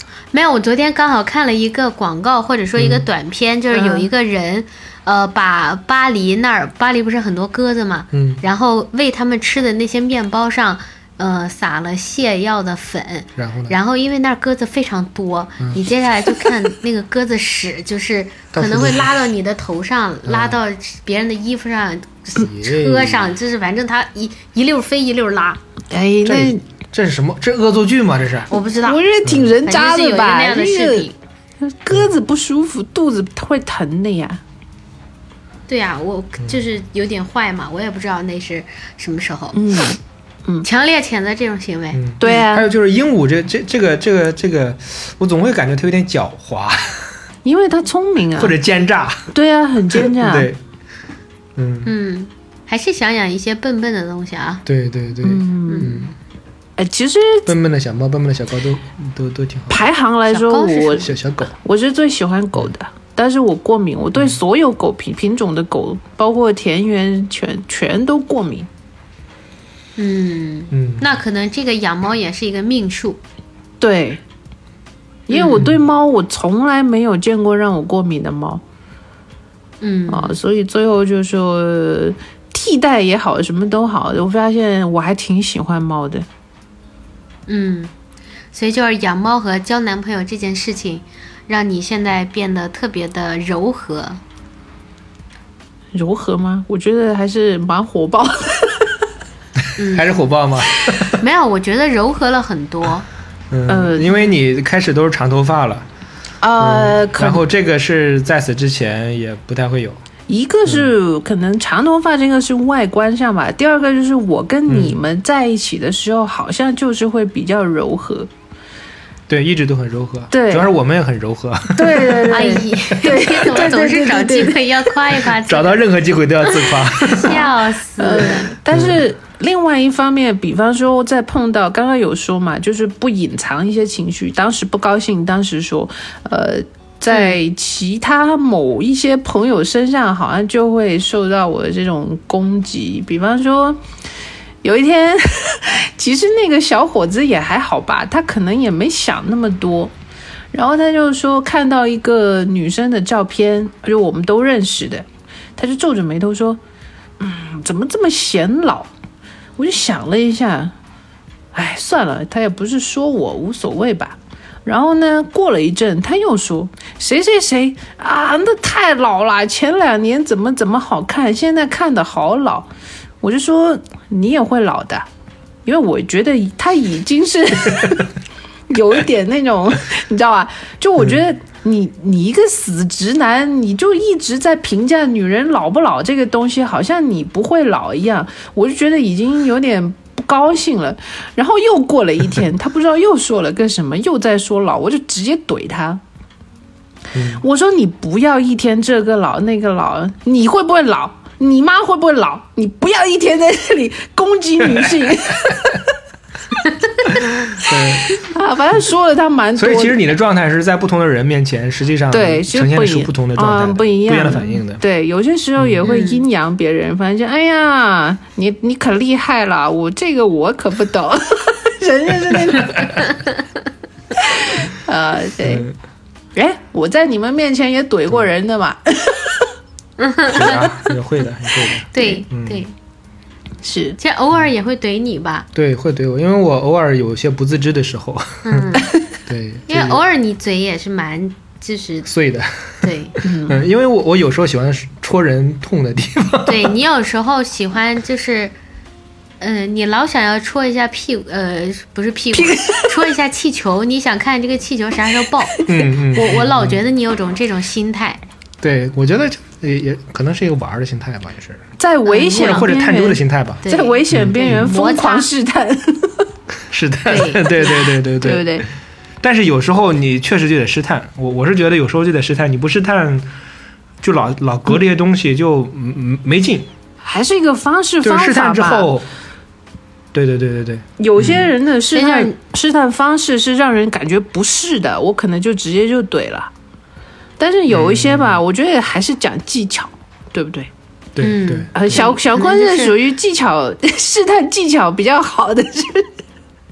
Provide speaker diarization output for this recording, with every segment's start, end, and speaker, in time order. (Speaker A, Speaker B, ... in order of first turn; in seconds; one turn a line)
Speaker A: 0.3-25.6
Speaker B: 2.8-3.0
Speaker C: 3.7-4.1
Speaker B: 8.1-8.4
Speaker B: 13.4-13.8
Speaker B: 15.6-16.5
Speaker B: 18.5-19.1
Speaker B: 20.2-20.6
Speaker B: 22.4-23.3
Speaker C: 25.9-26.6
Speaker B: 26.2-28.5
Speaker A: 28.5-29.0
Speaker C: 28.8-31.1
Speaker B: 29.2-29.5
Speaker A: 29.6-31.1
Speaker C: 31.6-34.4
Speaker A: 35.7-39.6
Speaker C: 39.5-40.7
Speaker A: 40.6-42.4
Speaker B: 41.9-47.1
Speaker C: 42.2-42.7
Speaker C: 47.4-48.5
Speaker B: 48.4-49.3
Speaker C: 49.3-50.5
Speaker B: 49.9-50.6
Speaker B: 51.5-51.9
Speaker A: 51.8-54.6
Speaker B: 54.6-56.1
Speaker C: 55.2-56.0
Speaker A: 55.7-56.0
Speaker C: 56.8-57.5
Speaker B: 57.5-59.8
Speaker C: 59.7-68.7
Speaker A: 60.3-61.1
Speaker B: 61.0-61.5
Speaker A: 70.0-73.2
Speaker B: 70.7-71.0
Speaker C: 73.8-74.2
Speaker C: 75.3-78.6
Speaker A: 75.3-75.6
Speaker A: 79.8-80.3
Speaker C: 80.1-86.3
Speaker A: 87.5-87.9
Speaker A: 88.5-94.2
Speaker C: 95.9-99.0
Speaker A: 99.8-100.1
Speaker B: 99.8-101.2
Speaker A: 101.2-103.0
Speaker B: 103.5-105.8
Speaker C: 103.7-104.3
Speaker C: 106.4-107.4
Speaker B: 106.6-110.0
Speaker C: 110.3-118.3
Speaker B: 114.7-115.0
Speaker B: 119.3-122.4
Speaker C: 120.3-120.7
Speaker C: 121.7-124.9
Speaker A: 122.3-125.8
Speaker B: 125.3-127.5
Speaker A: 126.4-128.5
Speaker C: 128.0-143.8
Speaker B: 128.7-129.0
Speaker A: 137.1-137.4
Speaker C: 144.6-149.9
Speaker C: 150.5-156.6
Speaker C: 157.2-158.9
Speaker C: 159.6-160.7
Speaker C: 161.5-172.7
Speaker C: 173.2-175.1
Speaker C: 175.6-178.1
Speaker C: 178.7-196.0
Speaker B: 197.1-197.4
Speaker C: 197.4-205.9
Speaker B: 207.6-208.2
Speaker C: 207.7-210.1
Speaker B: 209.6-214.8
Speaker C: 212.1-223.0
Speaker B: 215.6-215.9
Speaker A: 215.8-216.2
Speaker B: 222.5-223.0
Speaker C: 224.2-225.7
Speaker B: 225.4-225.7
Speaker C: 226.3-229.5
Speaker A: 230.0-230.7
Speaker B: 230.3-232.6
Speaker A: 231.9-232.7
Speaker C: 233.6-234.0
Speaker A: 234.0-235.4
Speaker B: 235.5-240.0
Speaker A: 238.4-238.9
Speaker A: 239.7-242.1
Speaker B: 242.1-246.7
Speaker A: 242.8-243.2
Speaker C: 243.2-243.6
Speaker A: 246.4-248.5
Speaker A: 249.4-258.2
Speaker C: 252.3-253.0
Speaker B: 255.6-256.8
Speaker B: 258.6-261.6
Speaker C: 261.8-266.3
Speaker A: 262.1-262.7
Speaker B: 262.4-264.7
Speaker A: 263.6-265.3
Speaker B: 266.7-268.7
Speaker A: 267.1-267.9
Speaker C: 268.2-268.6
Speaker B: 269.2-273.2
Speaker B: 274.0-276.7
Speaker C: 277.0-278.9
Speaker B: 278.0-279.1
Speaker B: 280.1-281.5
Speaker C: 281.0-286.5
Speaker A: 281.9-282.3
Speaker C: 287.4-290.7
Speaker B: 287.7-288.4
Speaker B: 291.1-292.0
Speaker A: 291.2-293.0
Speaker C: 291.7-296.1